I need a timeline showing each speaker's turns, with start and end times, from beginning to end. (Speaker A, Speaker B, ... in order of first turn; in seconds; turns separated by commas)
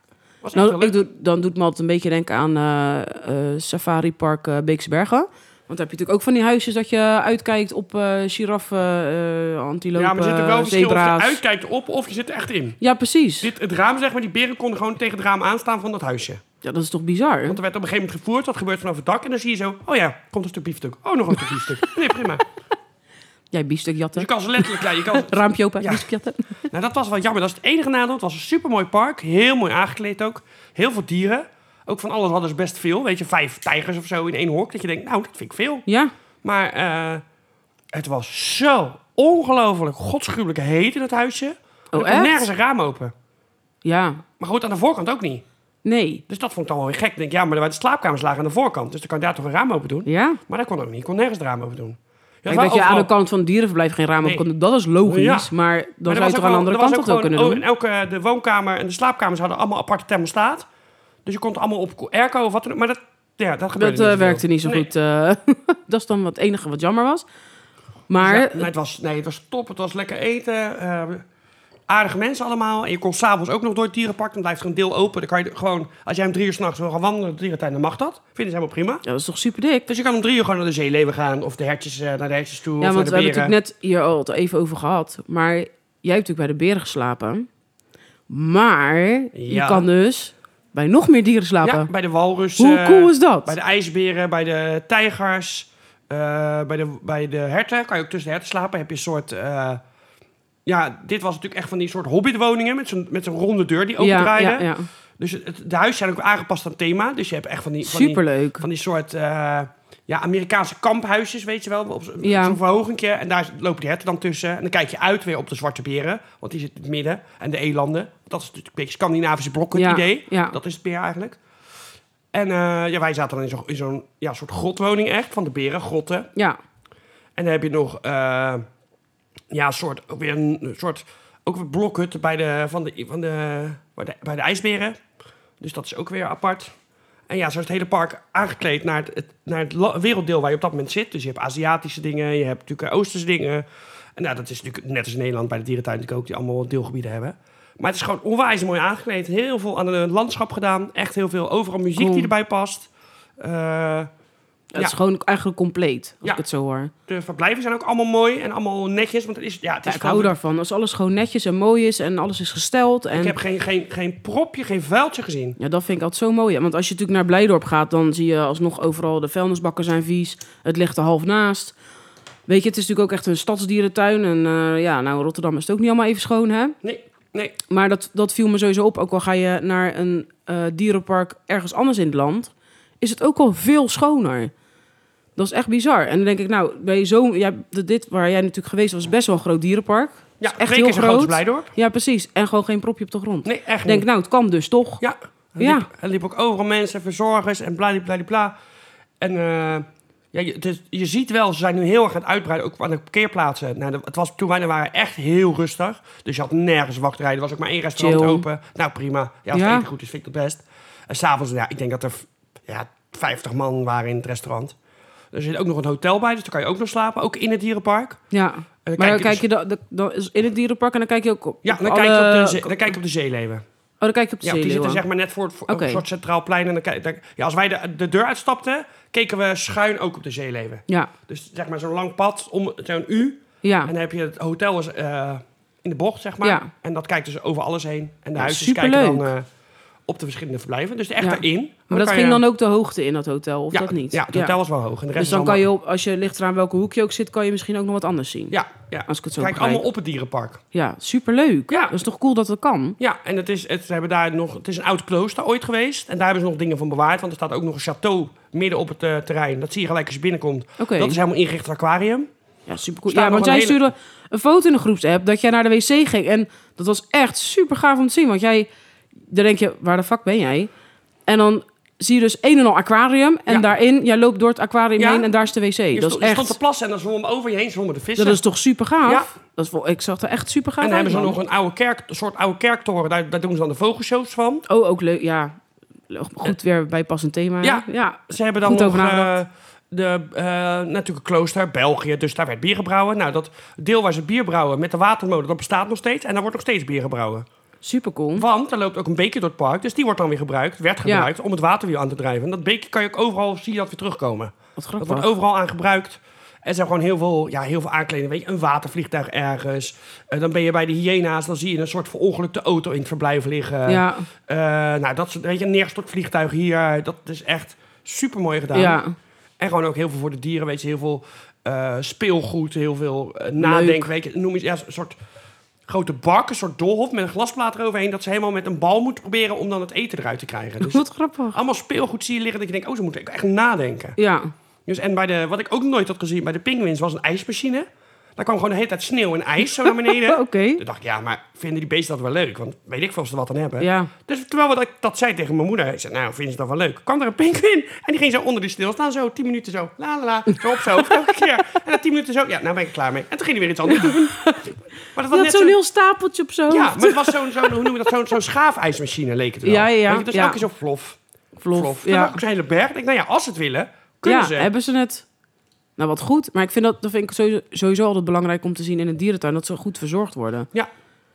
Speaker A: 0.4-1.0, Speaker B: 0.5-11.4, Speaker A: 10.0-12.8, Speaker B: 12.8-13.5, Speaker A: 13.4-16.4, Speaker B: 16.6-17.6, Speaker A: 17.5-22.4, Speaker B: 23.5-26.6, Speaker A: 24.2-26.1, Speaker A: 26.7-35.9, Speaker B: 35.9-36.1, Speaker A: 36.4-37.2, Speaker A: 37.9-43.1, Speaker B: 41.9-42.5, Speaker B: 43.8-44.2, Speaker A: 44.4-45.4, Speaker B: 45.9-46.2, Speaker A: 46.3-53.1, Speaker B: 50.1-50.4, Speaker B: 52.5-57.6, Speaker A: 55.0-55.5, Speaker A: 56.1-60.7, Speaker A: 61.2-64.9, Speaker B: 63.8-67.3, Speaker B: 68.1-68.7, Speaker A: 68.2-71.2, Speaker A: 71.9-79.0, Speaker B: 79.0-79.9, Speaker A: 79.9-83.5, Speaker B: 82.8-87.5, Speaker B: 88.3-91.9, Speaker A: 89.3-89.9, Speaker A: 91.6-99.8, Speaker B: 92.6-93.6, Speaker A: 100.7-121.4, Speaker B: 104.0-104.9, Speaker B: 107.8-108.6, Speaker B: 112.2-112.6, Speaker B: 119.8-120.6, Speaker A: 122.3-126.3, Speaker A: 127.4-128.7, Speaker A: 129.5-135.0, Speaker A: 135.6-136.7, Speaker A: 137.3-143.7, Speaker A: 144.2-154.1, Speaker B: 152.0-152.3, Speaker B: 154.7-156.9, Speaker A: 157.1-160.3, Speaker B: 159.8-163.4, Speaker A: 163.1-165.6, Speaker B: 165.6-171.8, Speaker B: 172.5-176.8, Speaker A: 176.8-177.6, Speaker B: 177.7-184.5, Speaker B: 185.4-195.0, Speaker A: 190.4-191.7, Speaker A: 193.4-194.1, Speaker A: 195.0-198.6, Speaker B: 195.6-195.9, Speaker A: 199.2-214.8, Speaker B: 208.0-208.5, Speaker B: 209.5-209.9, Speaker A: 215.3-218.2, Speaker B: 218.3-222.9, Speaker A: 218.8-219.4, Speaker A: 221.6-223.6, Speaker B: 224.0-225.0, Speaker A: 224.4-239.5, Speaker B: 225.7-226.0, Speaker B: 233.6-233.9, Speaker B: 236.4-236.7, Speaker B: 238.4-239.3, Speaker A: 240.1-242.4, Speaker B: 241.2-244.6, Speaker A: 243.7-245.6, Speaker B: 245.2-248.6, Speaker A: 248.5-250.6, Speaker B: 249.1-249.8, Speaker B: 250.7-253.0, Speaker A: 251.7-252.0, Speaker A: 253.0-262.3, Speaker B: 260.8-261.2, Speaker B: 262.7-268.7, Speaker A: 263.1-263.9, Speaker B: 269.3-270.7, Speaker B: 271.3-276.6, Speaker A: 275.0-275.3, Speaker A: 275.9-278.4, Speaker B: 278.2-281.4, Speaker A: 279.0-279.3, Speaker A: 280.8-284.6, Speaker B: 284.7-285.6, Speaker B: 286.1-289.3, Speaker A: 287.6-297.5, Speaker B: 297.8-298.5, Speaker A: 298.4-319.0, Speaker B: 301.1-301.3, Speaker B: 304.8-305.3, Speaker B: 313.9-314.3, Speaker B: 318.7-319.1, Speaker A: 319.6-325.2, Speaker B: 323.6-324.1, Speaker A: 325.9-334.2, Speaker B: 330.8-331.6, Speaker B: 334.2-334.5, Speaker A: 334.9-354.6, Speaker B: 339.9-340.8, Speaker B: 343.8-344.1, Speaker B: 353.9-354.7, Speaker A: 355.1-355.8, Speaker B: 355.3-358.1, Speaker A: 356.7-361.2, Speaker B: 359.6-360.6, Speaker B: 361.6-362.4, Speaker A: 361.7-364.7, Speaker B: 364.2-365.3, Speaker B: 366.0-370.7